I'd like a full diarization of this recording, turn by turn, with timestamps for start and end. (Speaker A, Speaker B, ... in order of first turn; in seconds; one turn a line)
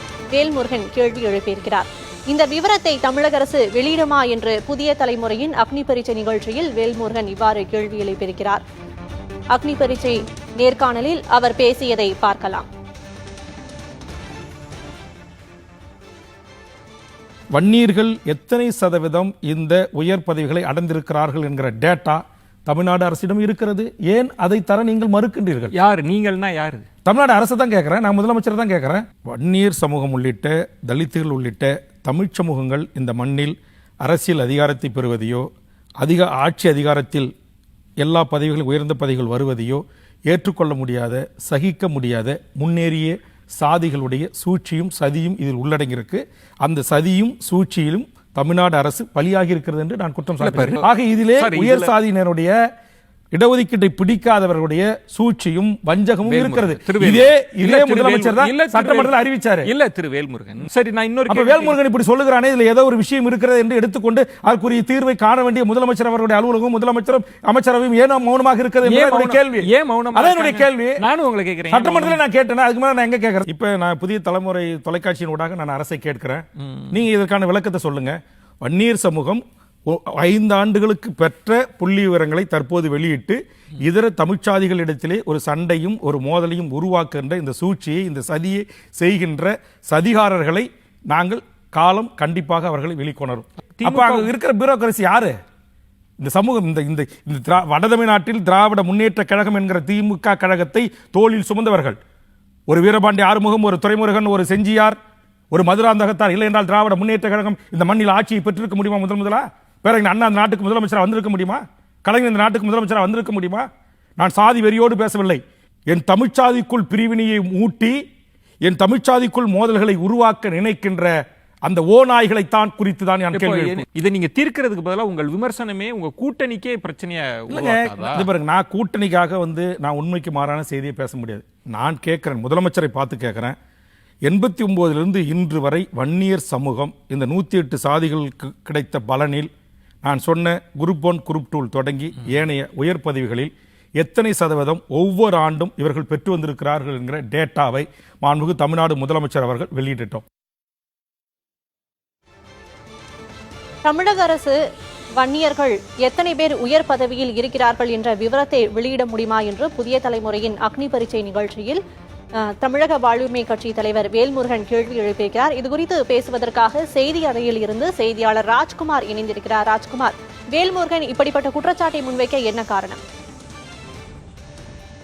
Speaker A: 0.3-8.6
Speaker A: 9.5-12.7
Speaker B: 17.5-25.7
Speaker C: 25.7-26.9
Speaker B: 27.0-35.5
Speaker B: 36.0-37.3
Speaker B: 38.0-52.5
Speaker C: 50.4-50.8
Speaker C: 51.4-51.9
Speaker B: 53.3-59.7
Speaker C: 56.2-59.1
Speaker C: 59.6-61.7
Speaker B: 61.3-71.0
Speaker C: 68.8-72.2
Speaker B: 71.7-95.3
Speaker C: 93.8-94.3
Speaker B: 96.2-102.0
Speaker B: 102.7-105.0
Speaker B: 105.5-113.7
Speaker B: 114.2-118.0
Speaker B: 118.6-121.1
Speaker B: 121.6-123.8
Speaker C: 123.3-128.3
Speaker B: 127.5-133.5
Speaker B: 134.2-139.5
Speaker B: 140.0-150.2
Speaker A: 153.8-154.6
Speaker A: 155.2-161.8
Speaker A: 162.4-173.0